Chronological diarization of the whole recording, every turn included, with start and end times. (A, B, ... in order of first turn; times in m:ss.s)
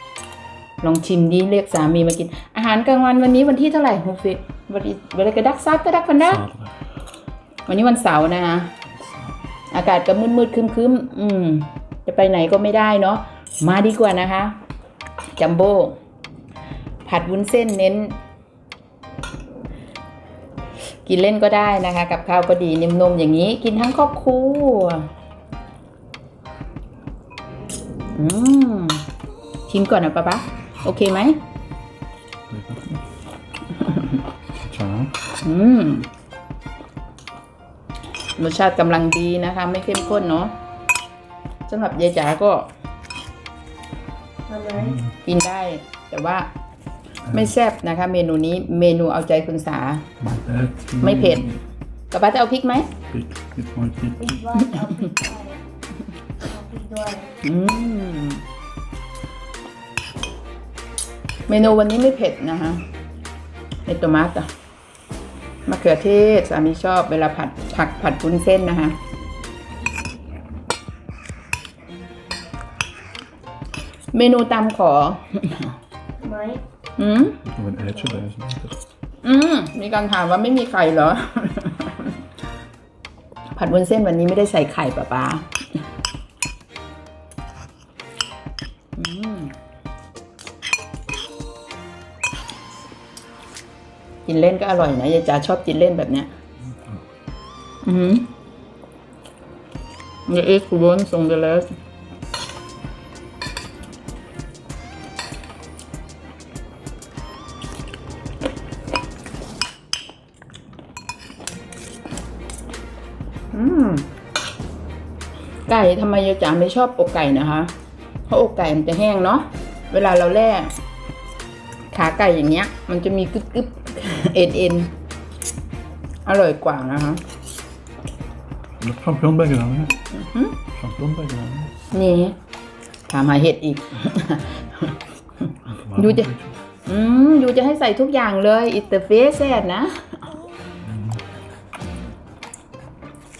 0:00.8-0:06.4 A
0:06.2-0:06.8 B
0:07.7-0:08.7 A
0:09.7-0:14.6 A
0:15.4-0:16.0 A
0:17.0-0:18.2 A
0:21.0-0:25.1 A
0:28.1-0:29.0 A
0:29.7-0:31.4 A
0:32.5-0:33.0 B
0:34.6-0:35.1 B
0:35.4-0:36.1 A
0:38.4-0:40.5 A
0:41.7-0:42.7 A
0:44.5-0:45.0 C
0:44.8-0:45.2 B
0:45.2-0:46.5 A
0:47.3-0:50.0 A
0:50.2-0:51.6 B
0:51.0-0:51.4 A
0:52.1-0:52.9 A
0:53.1-0:54.6 B
0:54.2-0:55.6 C
0:56.4-0:57.3 C
0:57.4-0:58.4 A
1:01.5-1:02.8 A
1:03.8-1:04.5 A
1:05.7-1:09.0 A
1:14.1-1:15.8 A
1:16.2-1:16.6 C
1:17.0-1:17.4 A
1:17.4-1:18.8 B
1:19.2-1:22.2 A
1:23.5-1:25.6 A
1:29.0-1:29.5 A
1:34.2-1:36.3 A
1:37.8-1:38.3 A
1:40.3-1:41.7 A
1:53.5-1:54.1 A
1:55.7-1:57.7 A
1:58.3-2:00.7 A
2:01.9-2:04.9 A
2:06.2-2:07.2 A
2:08.8-2:10.0 B
2:10.1-2:10.6 A
2:10.7-2:11.7 B
2:11.9-2:12.4 A
2:13.1-2:15.0 A
2:15.7-2:16.6 B
2:16.0-2:16.3 A
2:16.8-2:20.2 A
2:20.8-2:21.2 B